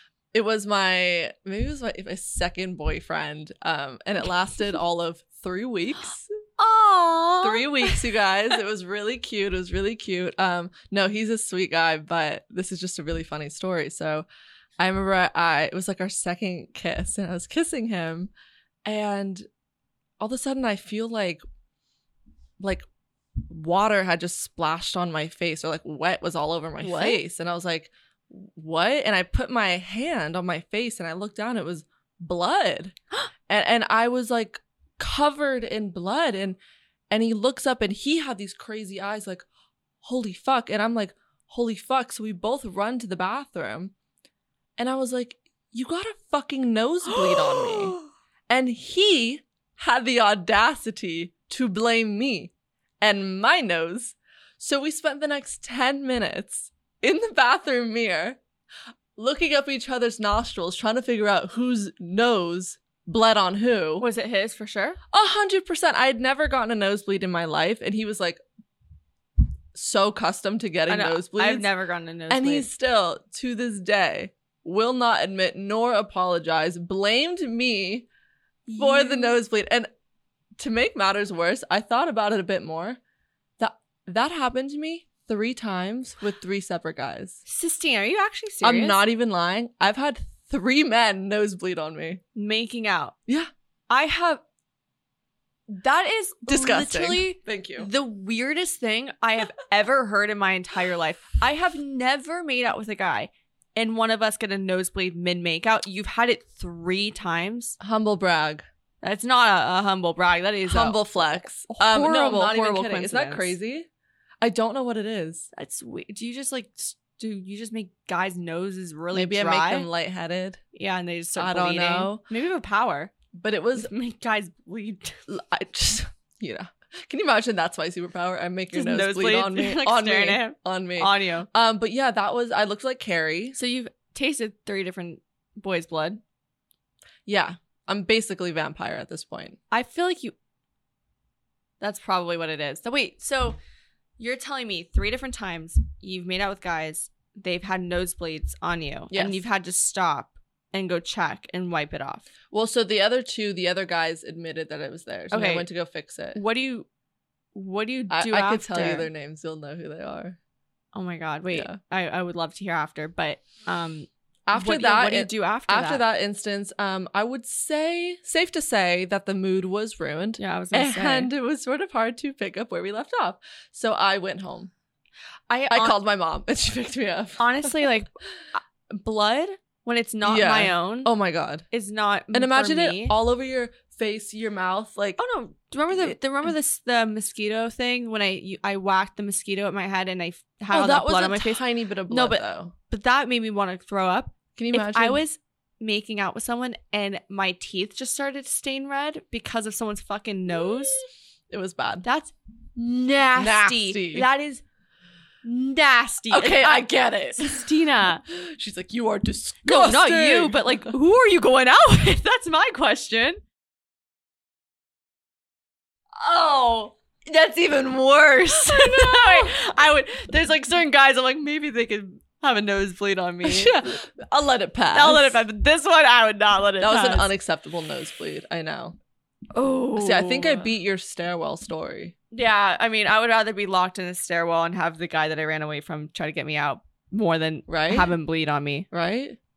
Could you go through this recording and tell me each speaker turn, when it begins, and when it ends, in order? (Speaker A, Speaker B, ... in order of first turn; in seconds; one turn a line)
Speaker A: 0.3-6.3
Speaker B: 6.6-8.0
Speaker A: 7.4-14.3
Speaker A: 14.8-18.3
Speaker A: 18.9-19.5
Speaker A: 20.2-21.4
Speaker A: 22.6-22.9
Speaker A: 23.5-33.0
Speaker B: 26.8-27.2
Speaker A: 33.5-36.6
Speaker A: 37.1-39.5
Speaker A: 40.0-43.9
Speaker A: 44.8-48.0
Speaker B: 47.1-48.1
Speaker A: 48.5-58.4
Speaker A: 59.2-64.1
Speaker B: 64.0-65.0
Speaker A: 65.1-68.4
Speaker A: 69.7-71.7
Speaker B: 70.9-72.7
Speaker A: 72.3-78.1
Speaker B: 78.7-79.4
Speaker A: 78.8-79.9
Speaker A: 80.6-83.0
Speaker A: 83.6-87.4
Speaker B: 87.5-89.0
Speaker A: 88.6-92.2
Speaker B: 92.3-93.1
Speaker B: 93.9-94.4
Speaker B: 95.7-107.8
Speaker A: 96.5-97.9
Speaker A: 107.8-108.7
Speaker B: 109.0-111.1
Speaker A: 110.6-113.9
Speaker B: 111.7-113.5
Speaker A: 114.4-115.5
Speaker B: 115.5-119.9
Speaker A: 119.1-120.6
Speaker B: 120.7-123.1
Speaker A: 121.4-122.2
Speaker A: 123.3-123.9
Speaker B: 123.8-125.2
Speaker A: 125.3-133.6
Speaker B: 128.7-131.5
Speaker B: 133.6-136.2
Speaker A: 137.3-139.6
Speaker B: 139.7-140.3
Speaker B: 141.8-143.6
Speaker B: 144.2-152.3
Speaker A: 149.1-149.4
Speaker A: 152.5-156.4
Speaker B: 155.3-155.7
Speaker B: 156.3-156.9
Speaker B: 157.6-159.1
Speaker A: 158.1-160.4
Speaker B: 160.9-166.0
Speaker A: 161.5-161.8
Speaker A: 164.5-174.7
Speaker B: 170.4-171.3
Speaker B: 175.5-176.0
Speaker A: 175.7-177.9
Speaker B: 177.4-181.1
Speaker A: 180.2-181.7
Speaker B: 181.7-183.2
Speaker A: 182.3-185.2
Speaker B: 185.2-201.0
Speaker A: 190.7-192.7
Speaker A: 194.6-195.2
Speaker A: 200.5-202.1
Speaker B: 202.0-204.6
Speaker A: 203.4-204.3
Speaker B: 205.4-208.2
Speaker A: 206.3-207.7
Speaker A: 208.3-210.9
Speaker B: 209.7-213.4
Speaker B: 216.2-223.8
Speaker A: 217.6-219.6
Speaker A: 223.4-225.4
Speaker B: 224.9-227.3
Speaker A: 226.8-229.0
Speaker B: 229.5-230.7
Speaker A: 229.9-232.1
Speaker B: 232.3-238.9
Speaker A: 237.7-238.1
Speaker A: 238.9-239.4